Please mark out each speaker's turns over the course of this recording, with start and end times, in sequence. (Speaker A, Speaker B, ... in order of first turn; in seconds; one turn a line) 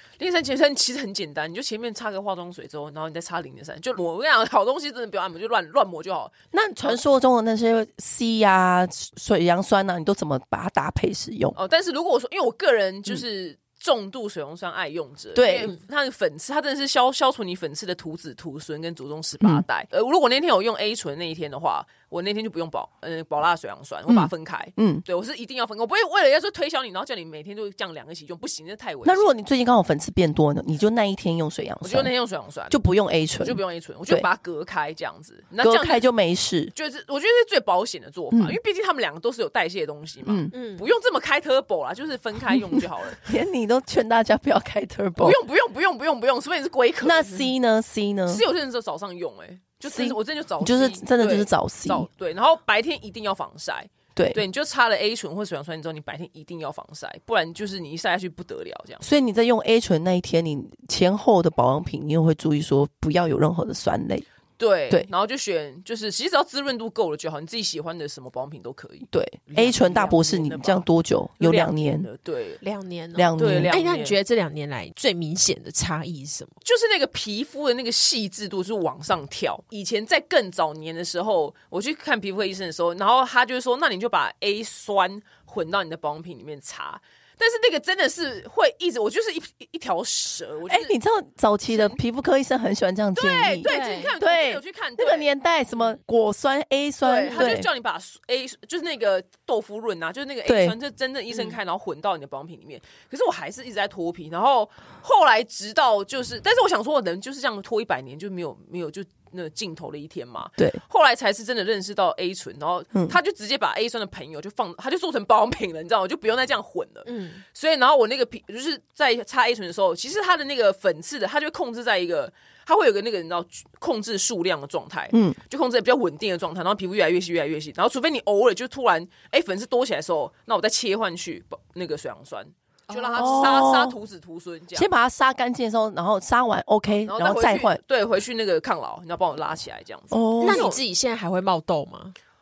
Speaker A: 0.2-7.0
Speaker B: 6.5-11.6
Speaker A: 11.6-29.3
Speaker B: 15.3-15.7
Speaker B: 19.4-19.6
Speaker B: 24.1-25.0
Speaker B: 29.0-32.1
Speaker A: 31.8-32.8
Speaker B: 32.7-34.3
Speaker A: 33.4-36.1
Speaker B: 35.6-36.7
Speaker A: 36.8-43.2
Speaker B: 38.3-38.6
Speaker B: 40.2-40.5
Speaker C: 40.5-40.9
Speaker B: 42.5-45.4
Speaker A: 45.2-47.5
Speaker B: 47.0-48.4
Speaker A: 48.3-59.0
Speaker B: 49.9-52.1
Speaker B: 54.2-54.4
Speaker B: 59.0-64.3
Speaker A: 64.6-70.9
Speaker B: 69.1-72.1
Speaker A: 71.4-72.6
Speaker C: 72.6-76.5
Speaker B: 73.2-73.8
Speaker A: 73.4-74.2
Speaker A: 76.6-90.9
Speaker B: 90.7-97.7
Speaker A: 91.7-92.0
Speaker A: 93.2-95.3
Speaker C: 93.6-94.1
Speaker A: 97.0-134.9
Speaker C: 97.3-97.5
Speaker B: 100.5-100.8
Speaker C: 101.3-101.6
Speaker C: 117.1-117.4
Speaker B: 125.1-125.4
Speaker C: 132.9-133.7
Speaker B: 133.2-134.0
Speaker B: 134.8-137.8
Speaker A: 137.0-140.8
Speaker B: 140.1-140.8
Speaker C: 140.4-142.2